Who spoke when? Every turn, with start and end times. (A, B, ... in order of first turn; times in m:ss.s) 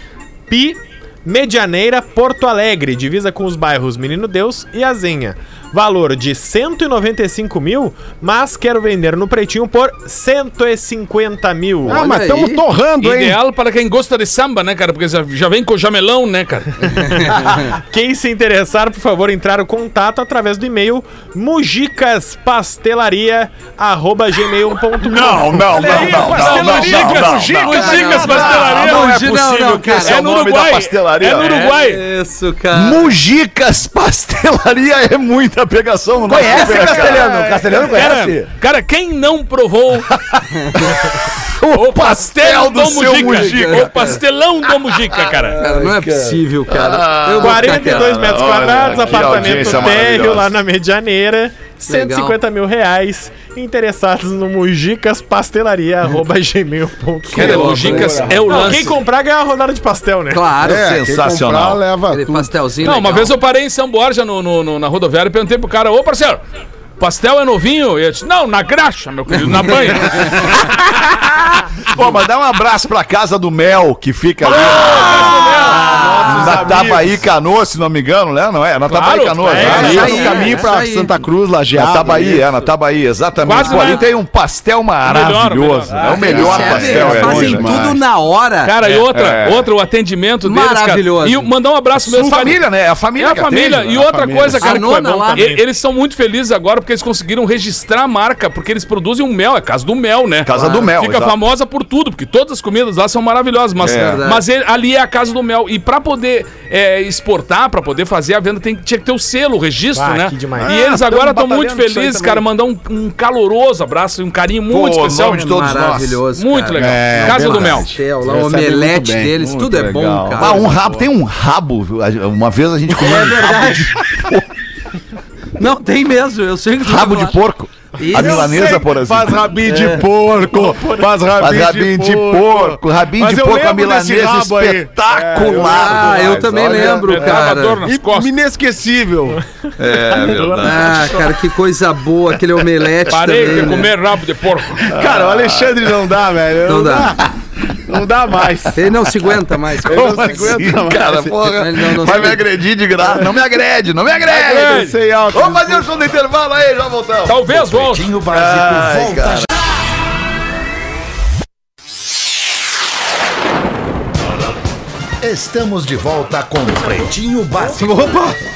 0:00.5-0:12.0 A
0:11.9-0:13.4 B
0:11.9-0:12.6 C
0:13.0-0:17.3 D
0:16.9-0:26.1 A
0:25.0-0:31.5 E
0:25.8-0:28.6 B
0:26.2-0:29.2 D
0:27.7-0:30.2 C
0:30.0-0:32.0 D
0:31.5-0:33.0 C
0:32.7-0:37.4 E
0:36.3-0:38.5 F
0:37.8-0:40.2 D
0:41.5-0:44.0 E
0:41.7-0:45.6 D
0:43.1-0:44.2 C
0:45.5-0:46.4 F
0:45.6-0:48.2 C
0:46.7-0:50.5 E
0:47.4-1:00.6 A
0:51.9-0:52.4 C
0:57.3-0:58.6 C
0:57.3-0:59.0 D
0:57.4-0:58.8 B
1:00.3-1:00.8 C
1:00.6-1:02.5 B
1:00.7-1:01.8 E
1:02.1-1:03.3 C
1:02.8-1:06.4 D
1:07.0-1:10.7 D
1:11.9-1:15.7 E
1:14.5-1:16.6 D
1:14.6-1:16.8 C
1:15.7-1:17.2 B
1:16.3-1:20.3 E
1:18.9-1:20.7 A
1:18.9-1:20.4 D
1:19.7-1:21.2 C
1:19.7-1:22.5 B
1:21.7-1:27.9 E
1:23.4-1:24.1 D
1:25.0-1:26.5 D
1:26.0-1:28.7 C
1:26.1-1:28.0 B
1:28.6-1:32.6 D
1:28.8-1:29.7 E
1:30.4-1:31.5 C
1:32.0-1:34.0 E
1:33.2-1:55.6 D
1:33.9-1:34.8 B
1:34.6-1:35.4 C
1:35.3-1:35.6 A
1:40.4-1:41.4 E
1:40.6-1:40.8 C
1:43.8-1:44.3 E
1:43.8-1:44.4 C
1:50.0-1:50.8 A
1:50.6-1:52.4 B
1:54.7-1:56.2 E
1:55.3-2:00.6 C
1:56.4-1:57.9 D
1:56.8-1:59.3 B
1:59.4-2:04.5 E
2:02.9-2:03.9 C
2:05.6-2:07.4 C
2:06.8-2:09.4 E
2:08.0-2:08.6 C
2:08.2-2:16.9 B
2:09.7-2:10.0 C
2:10.4-2:11.1 A
2:11.4-2:17.2 E
2:15.6-2:17.8 C
2:17.0-2:18.3 D
2:17.5-2:19.4 B
2:19.3-2:20.8 A
2:19.8-2:21.4 E
2:20.6-2:23.9 C
2:23.1-2:24.9 D
2:24.9-2:27.2 B
2:24.9-2:26.2 E
2:26.7-2:27.1 C
2:27.9-2:28.8 B
2:28.8-2:30.5 C
2:29.8-2:39.5 E
2:29.8-2:31.4 B
2:31.6-2:32.4 C
2:34.2-2:35.9 B
2:34.5-2:34.9 D
2:37.3-2:38.1 D
2:37.8-2:39.5 G
2:45.2-2:48.2 G
2:47.8-2:48.4 C